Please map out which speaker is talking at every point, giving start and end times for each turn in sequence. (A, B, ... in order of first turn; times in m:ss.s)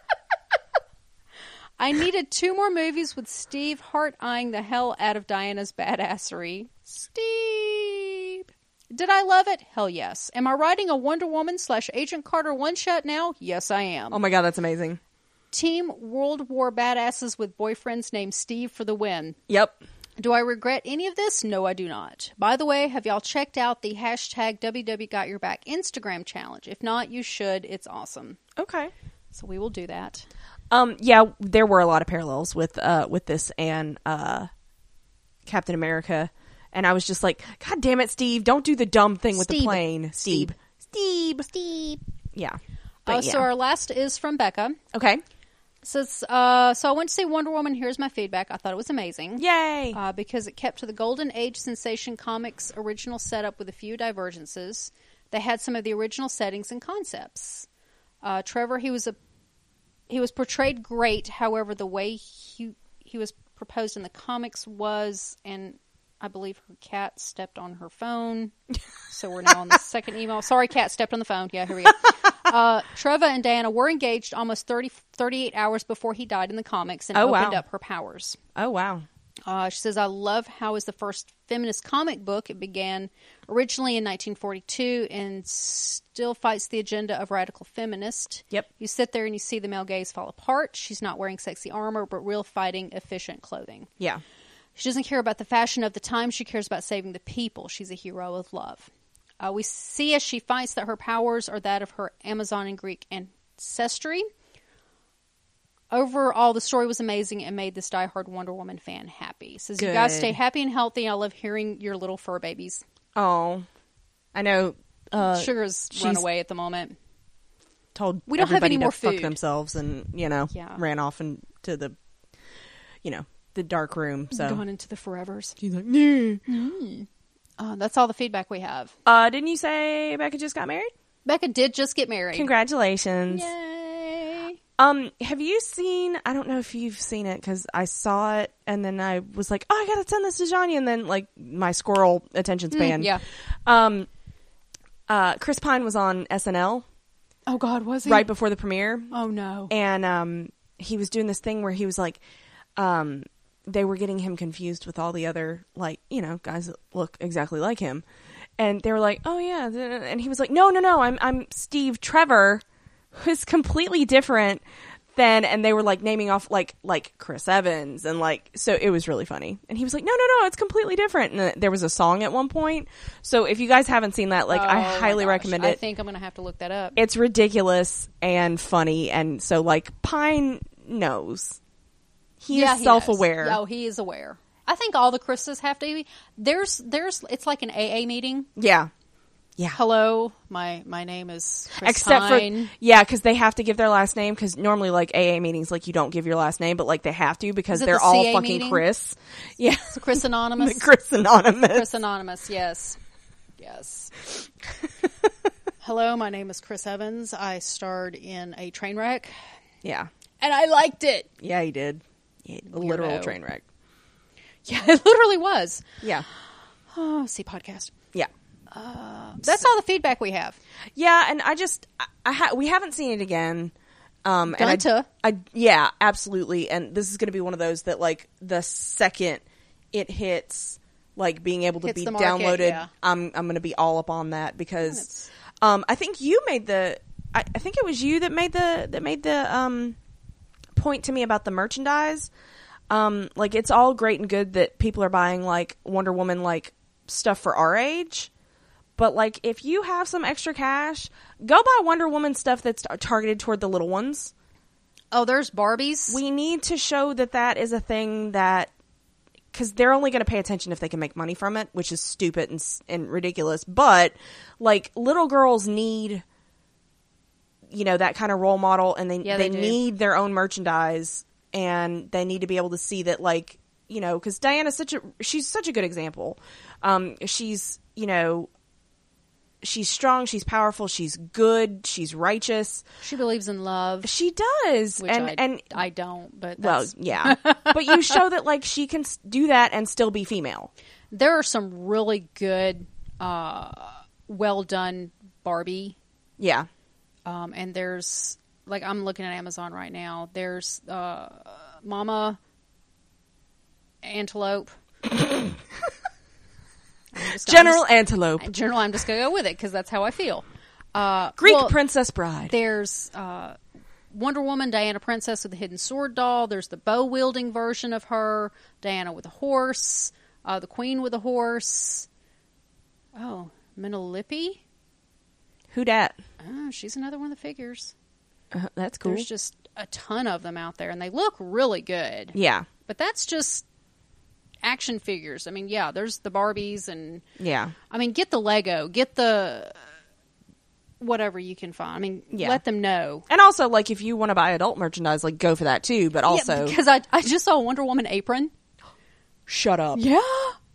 0:01.8-0:14.2 A
0:14.1-0:15.0 B
0:15.5-0:19.4 A
0:19.5-0:19.8 B
0:20.2-0:28.4 A
0:28.6-0:28.9 B
0:29.3-0:30.3 A
0:30.7-0:34.5 B
0:35.5-0:41.5 B
0:39.4-0:40.5 A
0:41.5-0:42.0 A
0:42.4-0:43.5 B
0:43.1-0:44.8 A
0:44.9-0:45.2 B
0:45.8-0:57.7 A
0:49.4-0:50.0 B
0:58.2-0:59.2 A
1:00.1-1:08.5 A
1:09.1-1:18.4 A
1:17.1-1:17.6 B
1:18.6-1:19.0 B
1:19.5-1:33.9 A
1:34.8-1:38.9 A
1:39.4-1:44.2 A
1:45.9-1:52.8 A
1:49.8-1:50.4 B
1:53.2-1:53.7 B
1:54.4-1:56.2 B
1:55.2-1:57.0 A
1:58.0-2:02.0 B
1:58.3-1:59.4 A
2:00.5-2:00.8 A
2:03.0-2:04.6 B
2:04.3-2:05.6 A
2:05.6-2:06.4 B
2:06.5-2:08.9 A
2:09.1-2:10.9 B
2:11.2-2:12.5 A
2:12.3-2:13.5 B
2:13.3-2:14.6 A
2:14.8-2:24.1 B
2:22.7-2:23.2 A
2:25.1-2:26.8 B
2:27.5-2:28.3 A
2:28.1-2:29.1 B
2:29.1-2:29.7 A
2:29.7-2:32.2 B
2:32.8-2:38.0 B
2:38.6-2:42.6 B
2:43.1-2:44.6 B
2:45.2-2:55.8 B
2:54.5-2:57.0 A
2:57.0-3:01.6 B
3:02.4-3:03.6 B
3:02.5-3:08.5 A
3:08.6-3:08.9 B
3:09.7-3:12.7 A
3:11.8-3:21.9 B
3:17.7-3:18.8 A
3:19.9-3:20.9 A
3:21.7-3:23.0 A
3:23.6-3:24.5 A
3:25.8-3:29.3 A
3:29.8-3:30.1 B
3:30.4-3:31.3 A
3:31.4-3:33.6 B
3:32.7-3:33.4 A
3:34.7-3:36.0 A
3:36.9-3:37.9 A
3:38.7-3:40.6 A
3:41.0-3:43.7 B
3:44.2-4:00.0 B
3:44.5-3:45.1 A
3:51.8-3:52.9 A
3:54.9-3:55.3 A
4:00.8-4:02.3 B
4:02.9-4:08.3 B
4:09.0-4:14.3 B
4:15.1-4:16.2 A
4:16.1-4:18.7 B
4:19.5-4:26.2 B
4:27.7-4:38.5 B
4:29.2-4:29.8 A
4:39.6-4:42.8 B
4:43.0-4:44.1 A
4:44.0-4:45.8 B
4:45.0-4:48.2 A
4:46.6-4:50.7 B
4:51.1-4:56.0 A
4:56.4-4:56.7 B
4:57.3-5:02.4 A
5:04.0-5:04.7 A
5:05.0-5:05.6 B
5:07.1-5:07.9 A
5:07.4-5:08.5 B
5:08.4-5:11.8 A
5:11.4-5:12.5 B
5:12.5-5:13.6 A
5:14.1-5:22.1 A
5:23.2-5:24.6 A
5:25.7-5:26.2 B
5:26.4-5:27.9 A
5:28.5-5:29.3 B
5:29.0-5:32.4 A
5:32.3-5:32.7 B
5:32.9-5:33.6 A
5:34.6-5:37.2 A
5:37.4-5:37.8 B
5:37.9-5:39.8 A
5:41.0-5:43.3 A
5:42.3-5:42.6 B
5:43.3-5:46.8 B
5:46.3-5:48.5 A
5:49.5-5:50.0 B
5:49.9-5:50.6 A